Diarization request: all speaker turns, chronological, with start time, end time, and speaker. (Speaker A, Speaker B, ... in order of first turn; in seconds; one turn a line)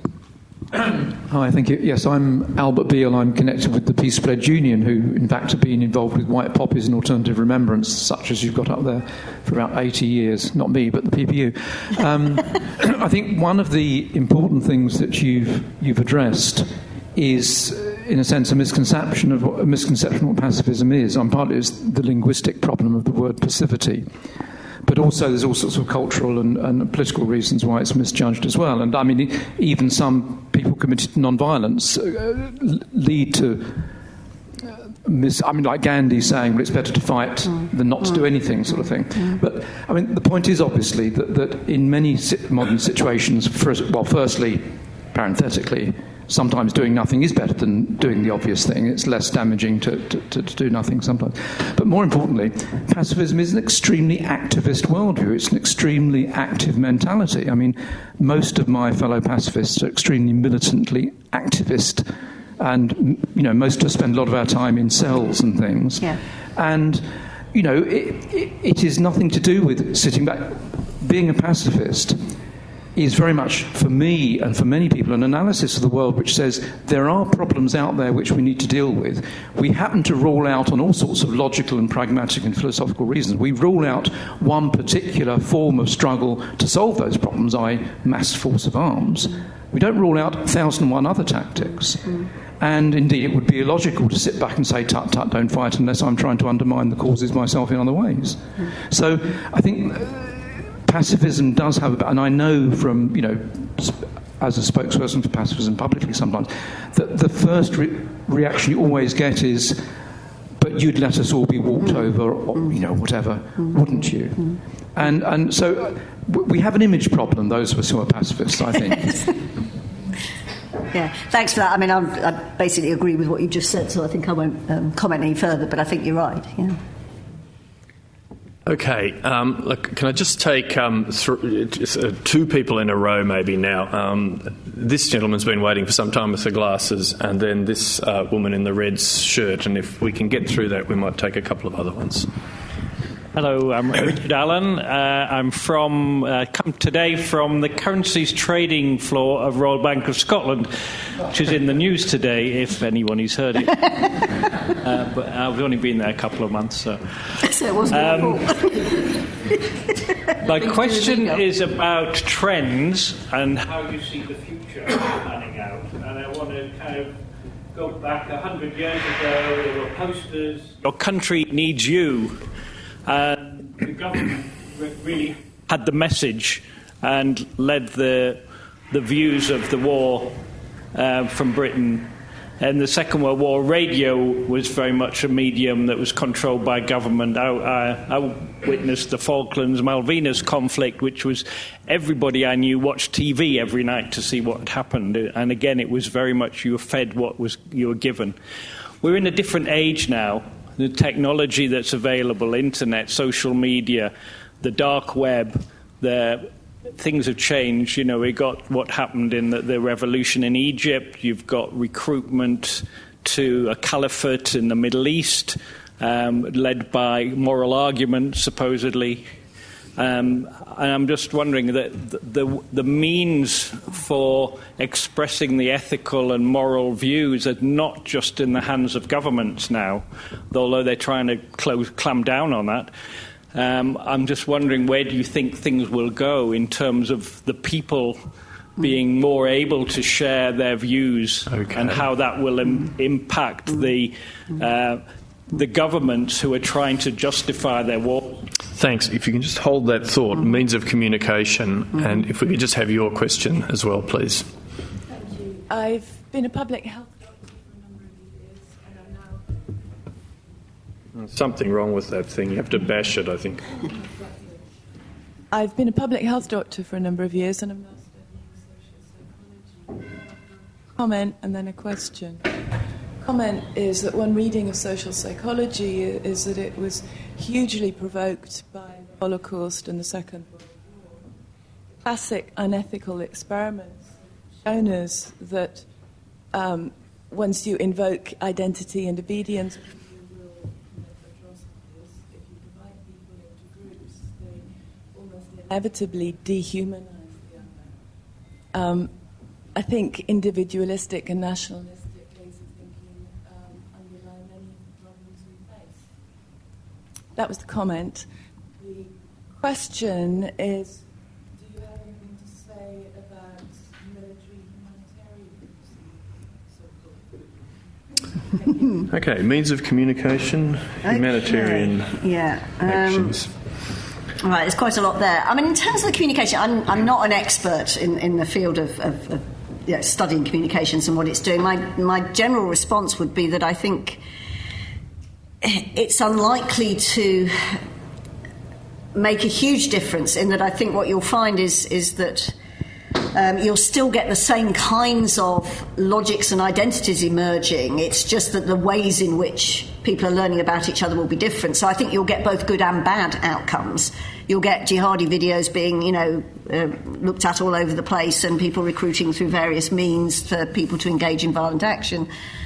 Speaker A: 1.3-24.1
Speaker A: 24.8-33.9
Speaker A: 35.0-72.3
Speaker A: 73.0-109.8
Speaker A: 110.6-119.3
Speaker B: 120.9-126.8
Speaker C: 128.7-142.3
Speaker D: 143.3-150.7
Speaker D: 151.2-157.0
Speaker B: 157.4-159.0
Speaker D: 157.9-158.5
Speaker D: 160.4-167.2
Speaker B: 160.5-161.4
Speaker D: 167.7-172.4
Speaker D: 173.1-180.4
Speaker D: 180.9-198.4
Speaker D: 199.0-219.2
Speaker D: 220.0-232.9
Speaker D: 233.5-248.4
Speaker C: 241.5-242.0
Speaker C: 248.7-254.5
Speaker E: 255.3-257.3
Speaker C: 261.2-263.7
Speaker E: 265.5-268.2
Speaker E: 270.9-272.6
Speaker E: 273.2-280.6
Speaker E: 282.0-284.1
Speaker E: 284.6-285.9
Speaker E: 286.5-290.1
Speaker E: 292.3-297.5
Speaker E: 298.7-299.1
Speaker E: 299.7-306.0
Speaker E: 307.4-308.3
Speaker E: 308.8-311.0
Speaker E: 311.6-313.7
Speaker C: 319.1-322.2
Speaker B: 321.1-323.4
Speaker C: 322.8-323.5
Speaker B: 324.4-334.2
Speaker B: 335.6-337.8
Speaker B: 339.1-342.6
Speaker B: 343.3-362.3